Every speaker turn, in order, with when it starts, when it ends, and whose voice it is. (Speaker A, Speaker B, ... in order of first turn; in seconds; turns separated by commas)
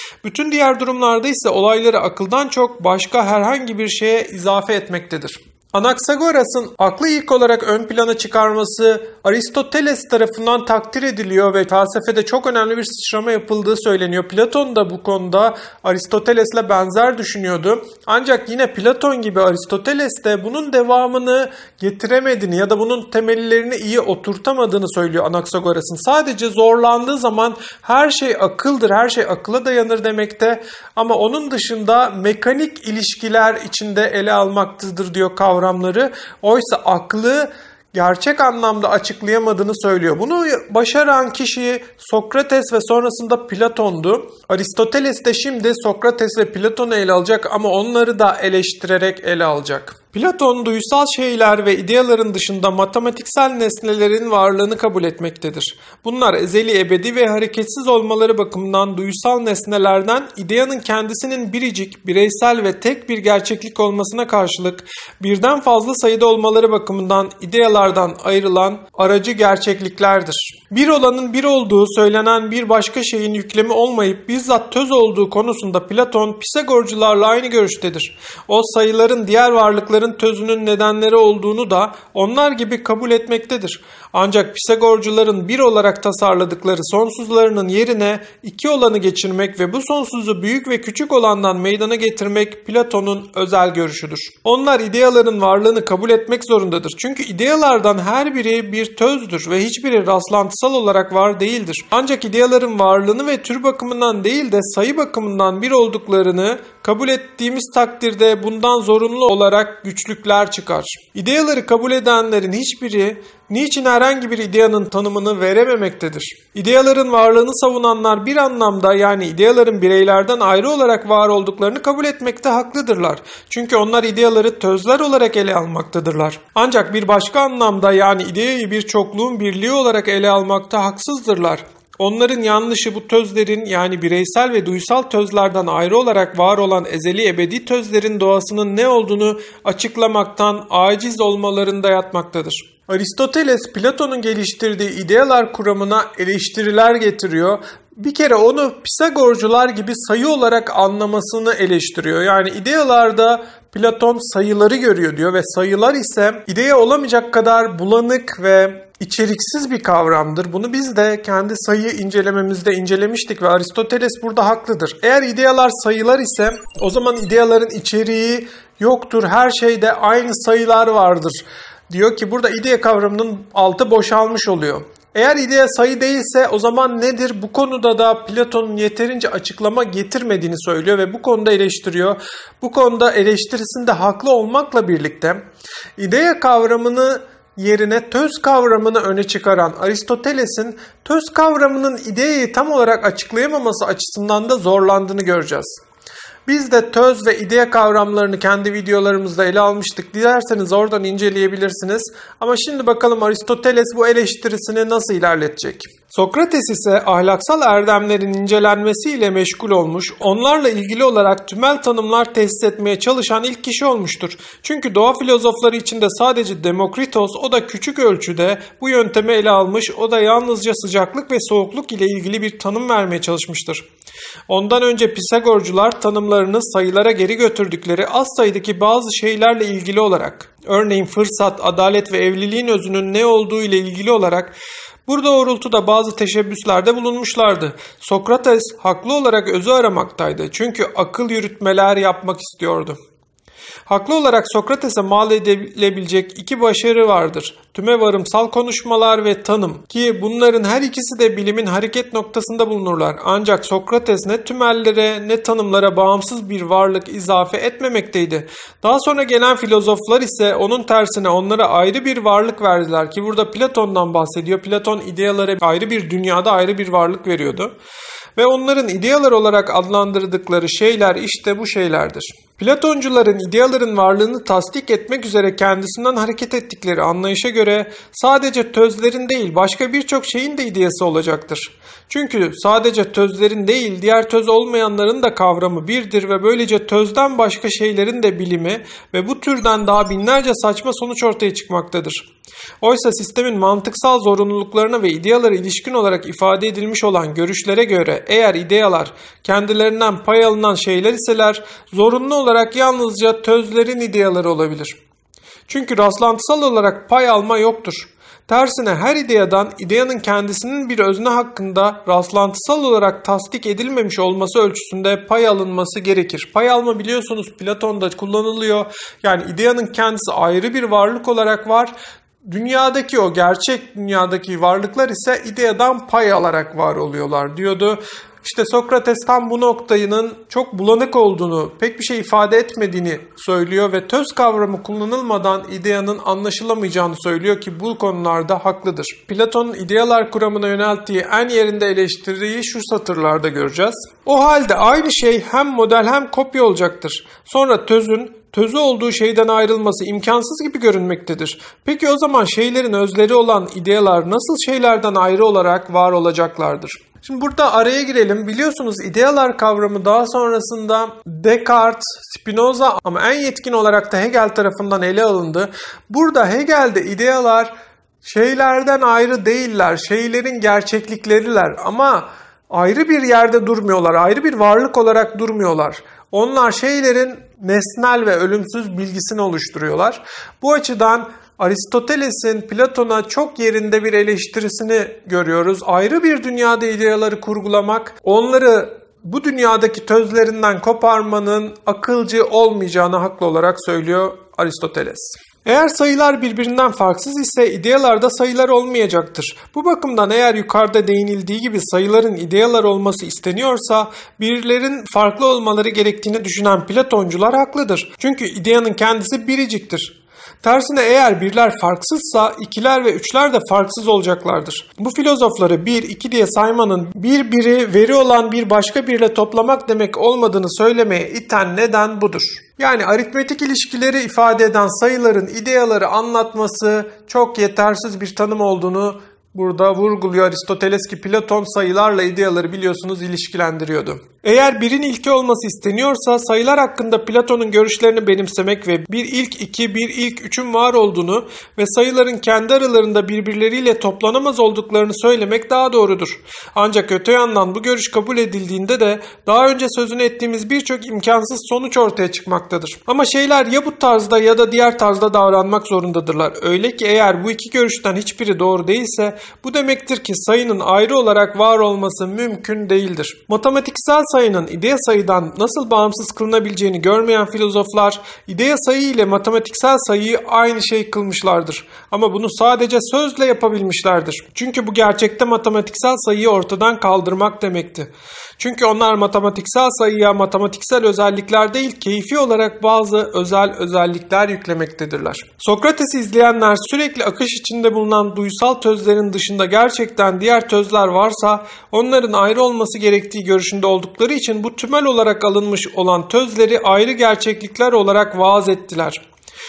Speaker A: 0.2-185.4, Speaker A: 186.0-195.8, Speaker A: 196.5-223.8, Speaker A: 224.5-234.6, Speaker A: 235.1-243.0, Speaker A: 243.9-267.7, Speaker A: 268.4-292.3, Speaker A: 292.8-304.9, Speaker A: 305.7-499.2